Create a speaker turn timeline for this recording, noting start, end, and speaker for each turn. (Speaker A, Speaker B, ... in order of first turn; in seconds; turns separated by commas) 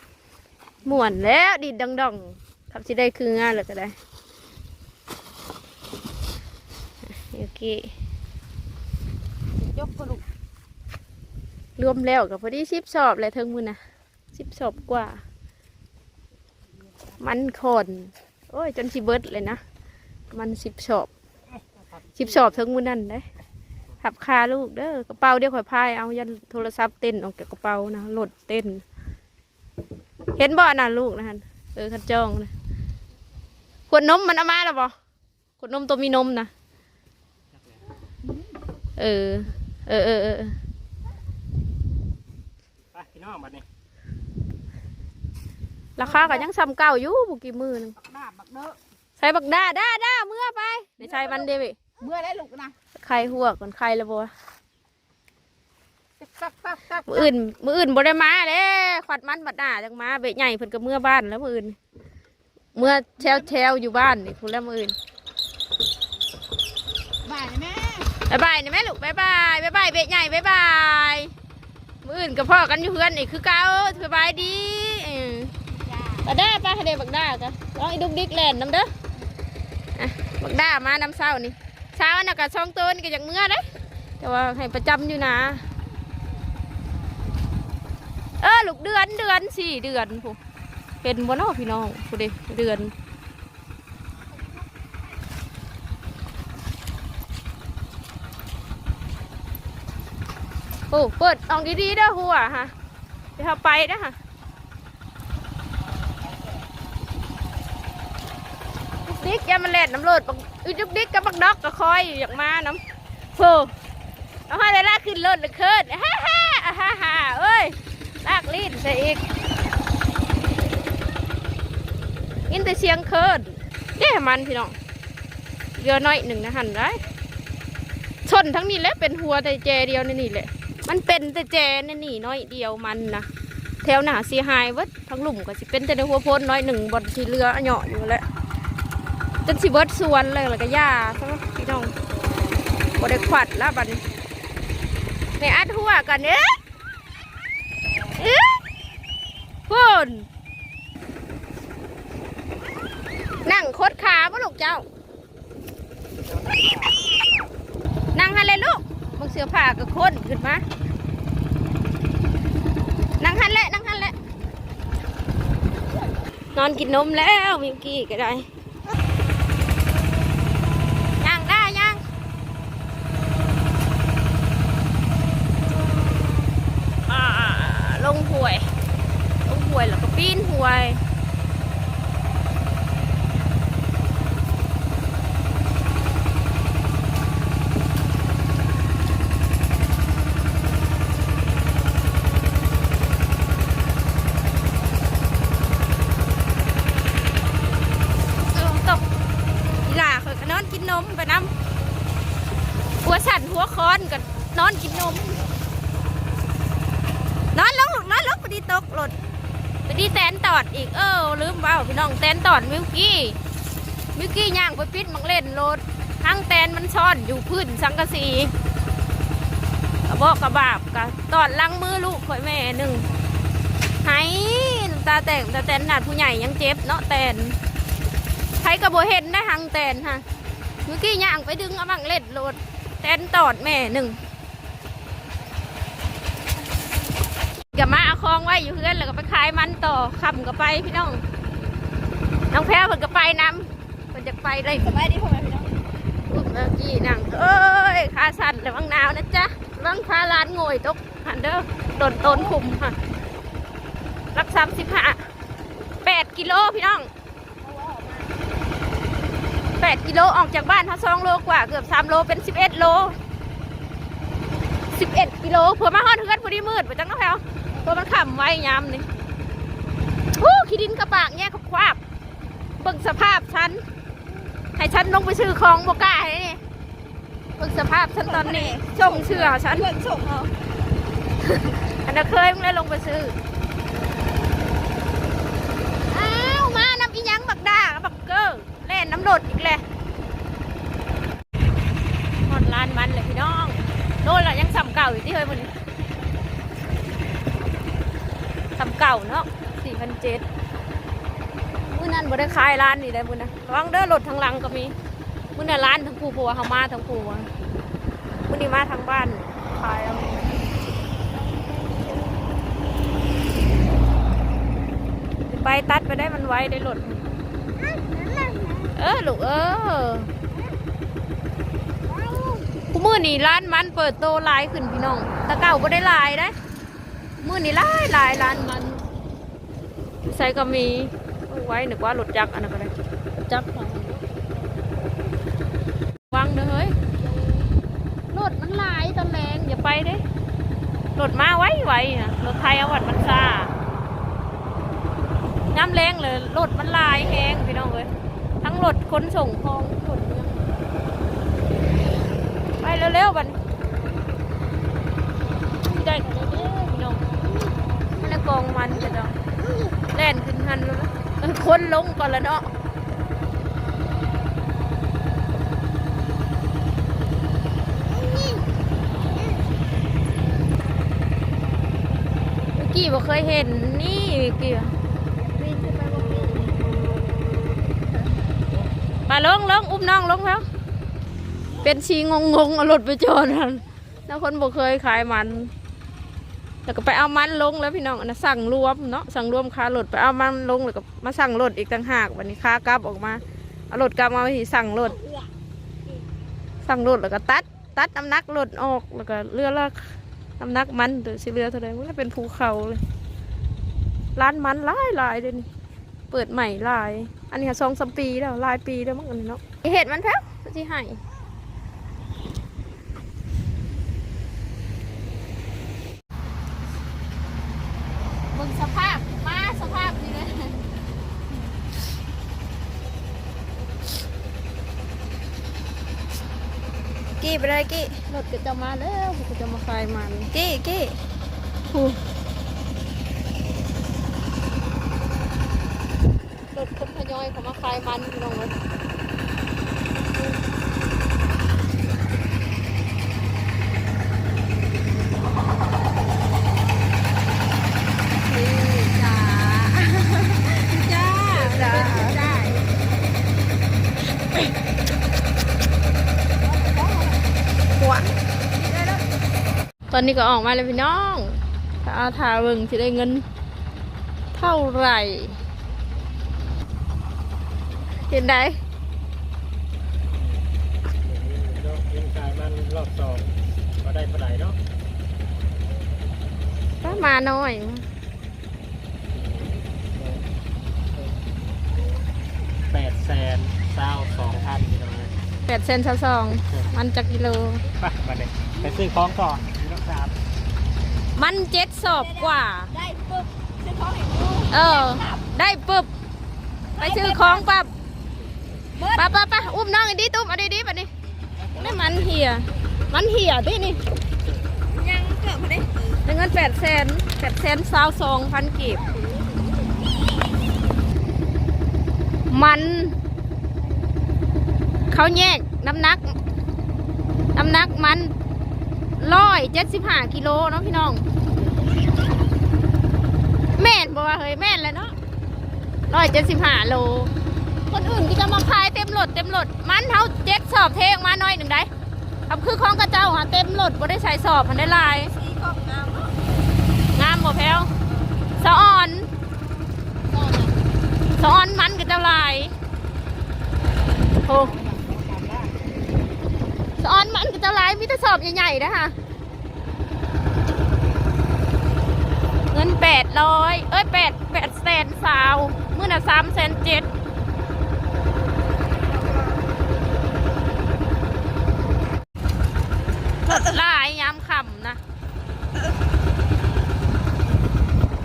Speaker A: 0.8-4.0, Speaker A: 7.1-7.9, Speaker B: 9.6-10.2, Speaker A: 11.8-13.8, Speaker A: 14.3-15.2, Speaker A: 17.2-19.6, Speaker A: 20.3-21.1, Speaker A: 22.2-23.2, Speaker A: 24.0-28.8, Speaker A: 30.4-32.5, Speaker A: 33.9-34.9, Speaker A: 35.6-36.5, Speaker A: 39.0-40.5, Speaker C: 42.9-43.6, Speaker A: 46.0-48.0, Speaker B: 46.0-46.5, Speaker B: 48.0-48.8, Speaker A: 49.2-51.8, Speaker B: 51.0-51.5, Speaker B: 52.0-52.8, Speaker A: 53.0-54.3, Speaker B: 56.2-57.3, Speaker A: 57.1-61.8, Speaker A: 62.8-65.0, Speaker B: 63.0-63.5, Speaker B: 67.2-68.1, Speaker A: 68.3-71.3, Speaker A: 72.0-75.5, Speaker B: 75.7-76.3, Speaker A: 76.2-78.9, Speaker A: 80.0-83.7, Speaker A: 84.2-85.6, Speaker A: 88.4-90.4, Speaker A: 91.0-92.9, Speaker A: 100.9-102.7, Speaker A: 103.4-104.2, Speaker A: 109.0-112.8, Speaker A: 113.3-113.7, Speaker A: 114.5-119.2, Speaker A: 122.5-124.8, Speaker A: 125.8-127.0, Speaker A: 128.2-133.3, Speaker A: 133.8-138.2, Speaker A: 139.4-141.9, Speaker A: 143.0-144.0, Speaker A: 145.4-146.6, Speaker A: 148.2-148.6, Speaker A: 149.7-150.3, Speaker A: 153.4-154.8, Speaker A: 158.1-160.6, Speaker A: 163.2-164.2, Speaker A: 166.6-168.5, Speaker A: 171.2-172.0, Speaker A: 177.1-178.7, Speaker A: 179.5-181.0, Speaker A: 198.5-199.0, Speaker A: 199.9-201.5, Speaker A: 203.0-205.4, Speaker A: 207.5-209.2, Speaker A: 209.9-213.4, Speaker A: 214.2-218.5, Speaker A: 220.1-223.1, Speaker A: 224.0-227.6, Speaker A: 228.6-230.2, Speaker A: 230.8-234.2, Speaker A: 237.7-241.2, Speaker A: 242.5-245.0, Speaker B: 244.8-245.7, Speaker A: 246.3-252.9, Speaker B: 252.2-252.5, Speaker A: 254.3-255.2, Speaker A: 256.0-257.1, Speaker B: 257.6-258.5, Speaker A: 259.8-263.2, Speaker A: 264.9-269.1, Speaker A: 270.4-272.0, Speaker A: 272.8-273.8, Speaker A: 274.8-276.6, Speaker A: 277.6-279.9, Speaker B: 278.2-280.5, Speaker A: 281.6-283.4, Speaker A: 286.1-289.8, Speaker A: 292.4-295.7, Speaker A: 298.8-300.5, Speaker A: 301.9-304.9, Speaker A: 305.6-307.5, Speaker A: 308.5-310.6, Speaker A: 315.5-317.2, Speaker B: 317.8-318.9, Speaker A: 319.0-320.3, Speaker B: 322.1-322.7, Speaker A: 322.9-326.5, Speaker A: 327.4-329.0, Speaker A: 330.2-332.9, Speaker A: 333.5-334.3, Speaker A: 336.3-337.0, Speaker A: 338.3-340.2, Speaker A: 341.2-343.7, Speaker A: 345.7-348.1, Speaker A: 348.6-350.6, Speaker A: 352.8-353.6, Speaker A: 355.8-357.2, Speaker A: 358.1-359.4, Speaker A: 360.1-362.7, Speaker B: 368.2-368.6, Speaker A: 372.7-374.9, Speaker B: 375.6-377.0, Speaker B: 378.2-378.6, Speaker A: 379.3-380.7, Speaker A: 381.8-385.7, Speaker A: 386.9-395.2, Speaker A: 396.9-403.0, Speaker A: 404.4-405.7, Speaker A: 406.3-411.2, Speaker A: 418.5-420.8, Speaker A: 427.4-431.2, Speaker A: 431.9-432.2, Speaker A: 436.7-438.8, Speaker B: 448.5-452.9, Speaker A: 451.4-452.4, Speaker B: 456.6-457.4, Speaker A: 458.0-458.3, Speaker B: 458.8-459.2, Speaker A: 460.1-463.4, Speaker A: 464.6-465.6, Speaker A: 468.3-468.8, Speaker C: 471.2-473.5, Speaker C: 474.0-474.8, Speaker A: 477.0-478.1, Speaker C: 482.9-485.3, Speaker A: 485.7-487.8, Speaker C: 488.0-490.3, Speaker A: 491.4-492.9, Speaker B: 492.2-495.4, Speaker A: 494.7-496.1, Speaker B: 497.0-497.7, Speaker A: 497.0-497.9, Speaker B: 499.0-499.3, Speaker A: 499.2-501.1, Speaker A: 501.8-504.0, Speaker B: 504.9-506.2, Speaker A: 506.2-509.1, Speaker A: 512.5-513.2, Speaker A: 515.1-516.3, Speaker A: 517.5-518.3, Speaker A: 519.2-521.2, Speaker A: 523.8-525.1, Speaker A: 526.1-527.3, Speaker A: 527.9-531.9, Speaker A: 532.5-535.4, Speaker B: 535.4-536.3, Speaker A: 537.1-537.9, Speaker A: 538.6-539.3, Speaker B: 540.3-540.8, Speaker A: 541.4-542.7, Speaker A: 544.4-544.7, Speaker B: 544.5-545.8, Speaker A: 547.0-549.2, Speaker A: 552.7-557.1, Speaker A: 563.5-565.0